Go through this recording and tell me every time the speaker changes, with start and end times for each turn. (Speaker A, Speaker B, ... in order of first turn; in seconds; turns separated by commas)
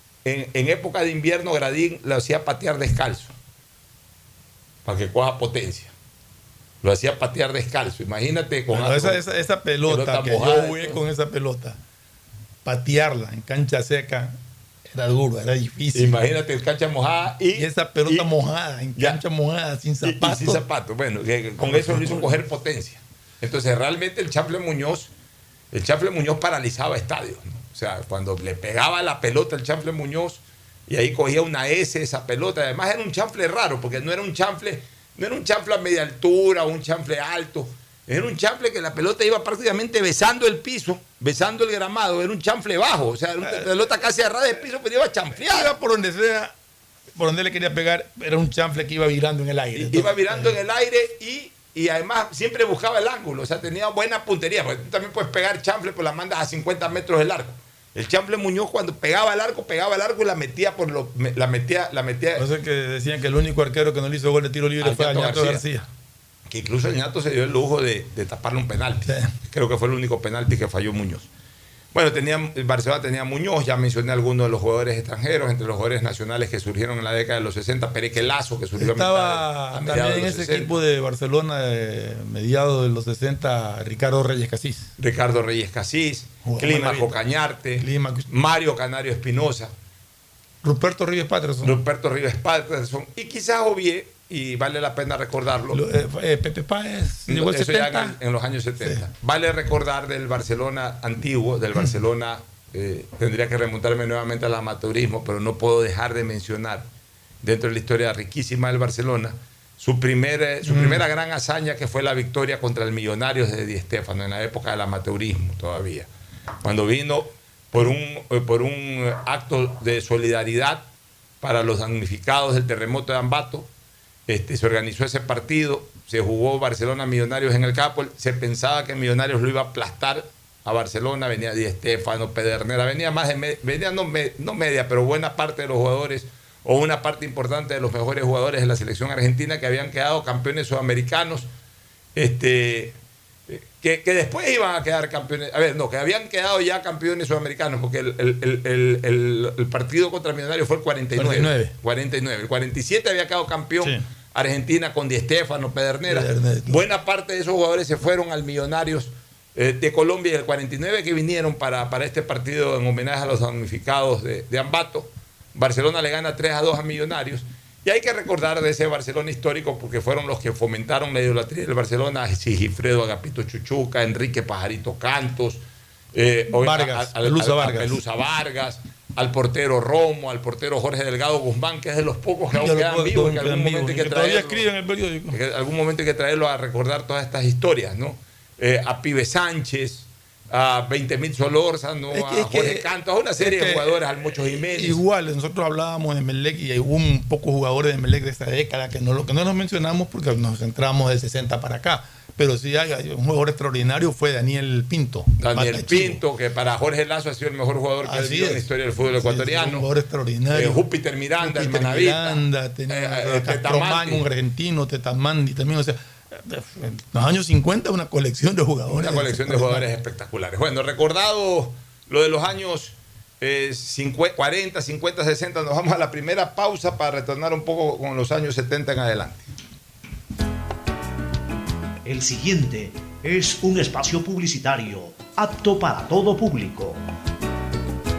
Speaker A: 0.2-3.3, Speaker A: 4.8-5.9, Speaker A: 6.8-9.2, Speaker B: 8.7-11.8, Speaker A: 9.9-11.0, Speaker B: 12.6-14.3, Speaker B: 14.9-16.2, Speaker A: 15.9-18.3, Speaker B: 17.5-20.6, Speaker A: 20.0-25.1, Speaker B: 21.6-22.3, Speaker A: 25.7-45.7, Speaker B: 43.4-43.7, Speaker B: 45.5-46.5, Speaker B: 47.1-50.5, Speaker A: 49.7-62.5, Speaker B: 62.4-65.9, Speaker A: 64.8-65.6, Speaker A: 66.5-71.3, Speaker B: 69.0-69.3, Speaker A: 71.9-80.7, Speaker B: 78.8-84.9, Speaker A: 85.0-89.7, Speaker B: 86.4-87.2, Speaker B: 87.8-88.3, Speaker B: 90.6-91.8, Speaker A: 91.6-95.8, Speaker B: 95.7-98.2, Speaker A: 97.3-106.9, Speaker B: 98.8-99.1, Speaker A: 107.4-116.1, Speaker B: 110.6-111.0, Speaker A: 116.6-120.8, Speaker A: 121.4-123.7, Speaker A: 124.3-141.5, Speaker A: 142.1-142.9, Speaker A: 143.5-175.6, Speaker B: 151.1-151.7, Speaker B: 156.1-156.8, Speaker A: 176.1-184.6, Speaker B: 176.5-178.0, Speaker B: 182.5-185.4, Speaker A: 185.3-195.0, Speaker B: 192.1-206.2, Speaker A: 205.4-209.8, Speaker B: 208.0-210.8, Speaker A: 210.5-214.2, Speaker B: 211.4-219.8, Speaker A: 218.9-229.5, Speaker C: 232.0-237.0